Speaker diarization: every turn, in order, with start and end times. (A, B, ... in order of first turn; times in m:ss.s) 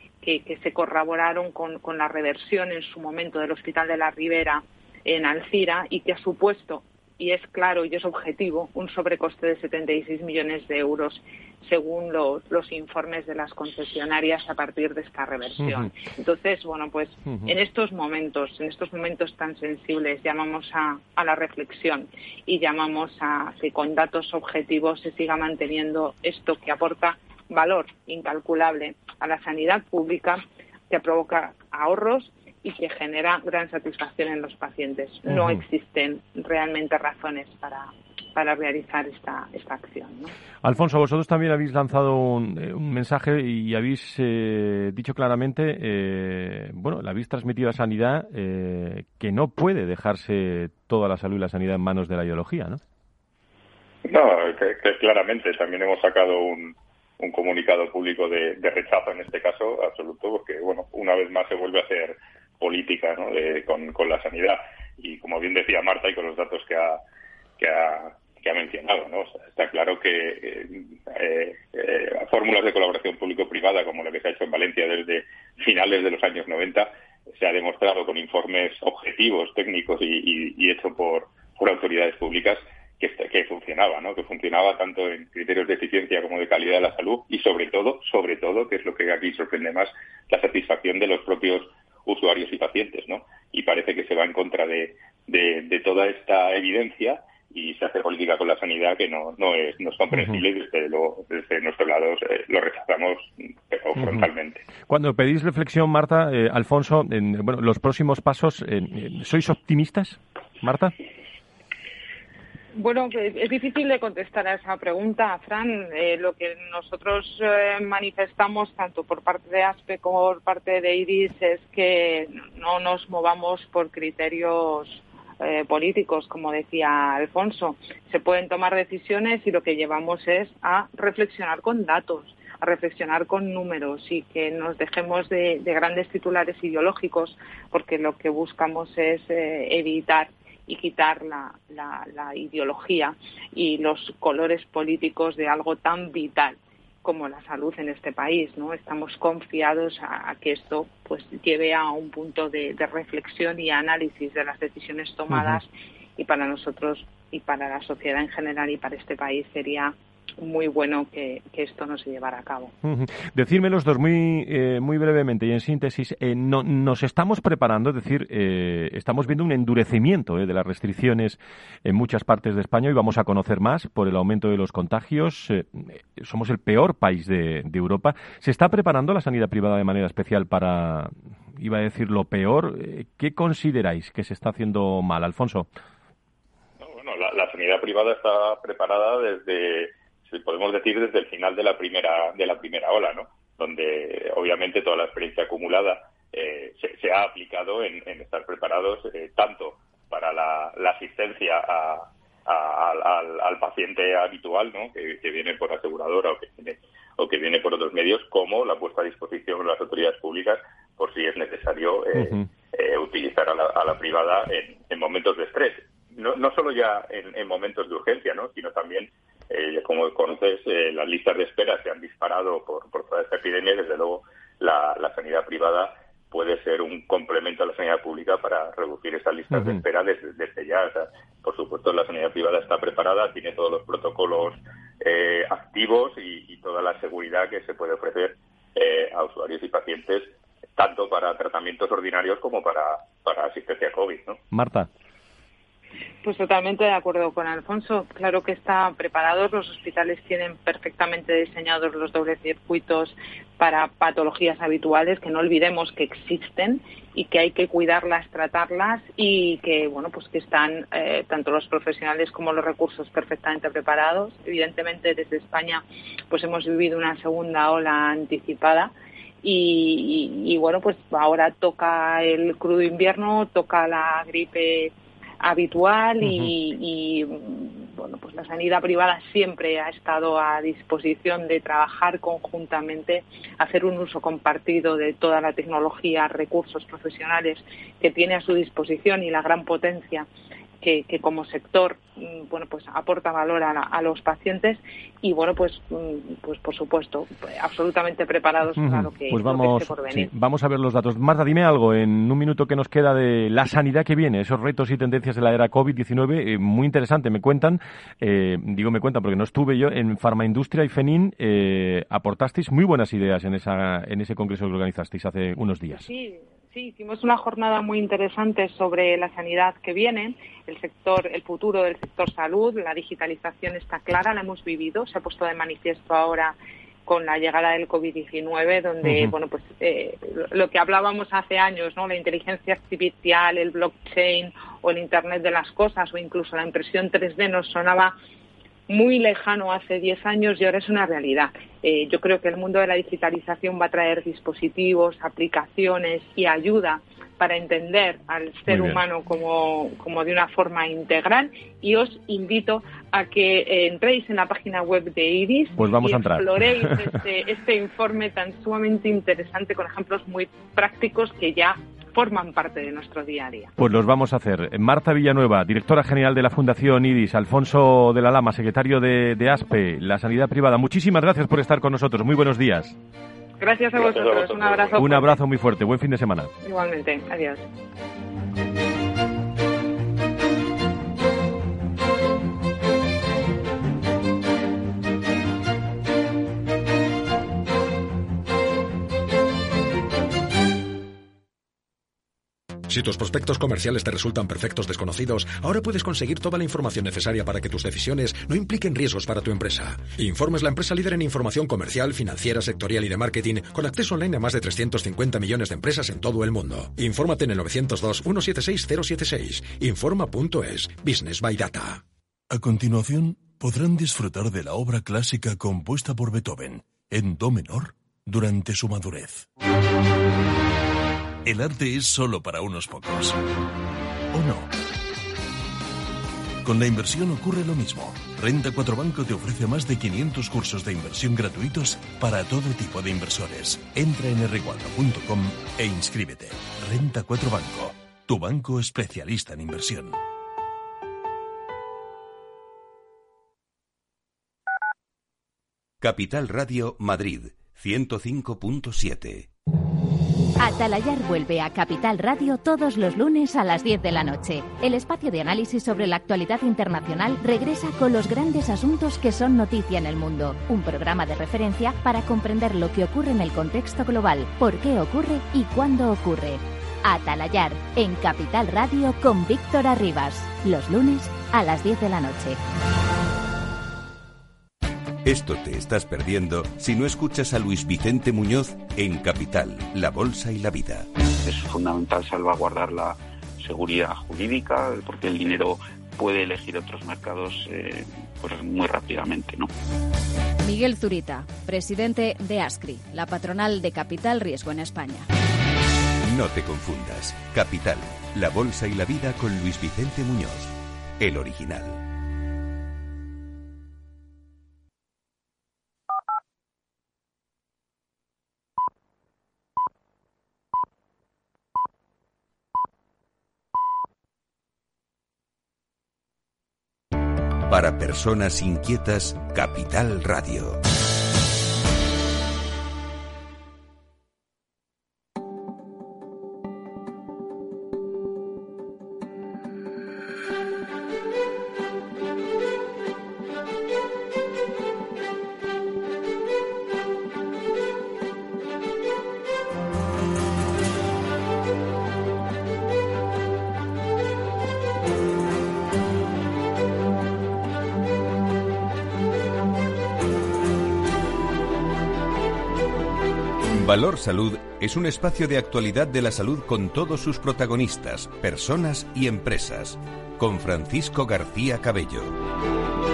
0:00.2-0:40.3 A
0:35.3-0:35.6 B
0:40.6-0:52.8 B
0:54.1-1:07.0 C
1:07.6-1:44.6 C
1:40.1-1:40.4 B
1:44.0-1:44.3 B
1:44.9-1:50.9 B
1:52.8-2:42.7 A
2:35.3-2:35.6 B
2:42.8-3:05.7 B
3:06.8-4:04.4 C
3:32.2-3:32.5 B
3:49.5-3:49.8 B
4:04.5-4:04.9 B
4:06.2-4:28.9 A
4:29.4-4:50.3 A
4:36.2-4:36.5 B
4:50.8-5:00.3 A
4:58.8-5:16.1 B
5:15.9-5:38.1 A
5:29.0-5:29.4 B
5:38.9-6:03.7 A
5:48.7-5:49.0 B
5:55.8-5:57.0 B
6:03.8-6:13.0 B
6:13.6-6:15.4 A
6:14.0-6:15.1 C
6:15.0-6:16.5 B
6:16.6-6:17.6 A
6:32.9-6:52.0 D
6:52.5-6:59.5 E
7:01.4-7:03.4 E
7:04.3-7:04.7 E
7:06.6-7:20.2 E
7:26.0-7:29.5 F
7:30.6-7:52.6 G
7:55.2-8:01.1 F
8:01.4-8:09.7 H
8:10.6-8:15.3 I
8:16.2-8:22.0 F
8:37.6-8:40.8 F
9:13.7-9:22.4 F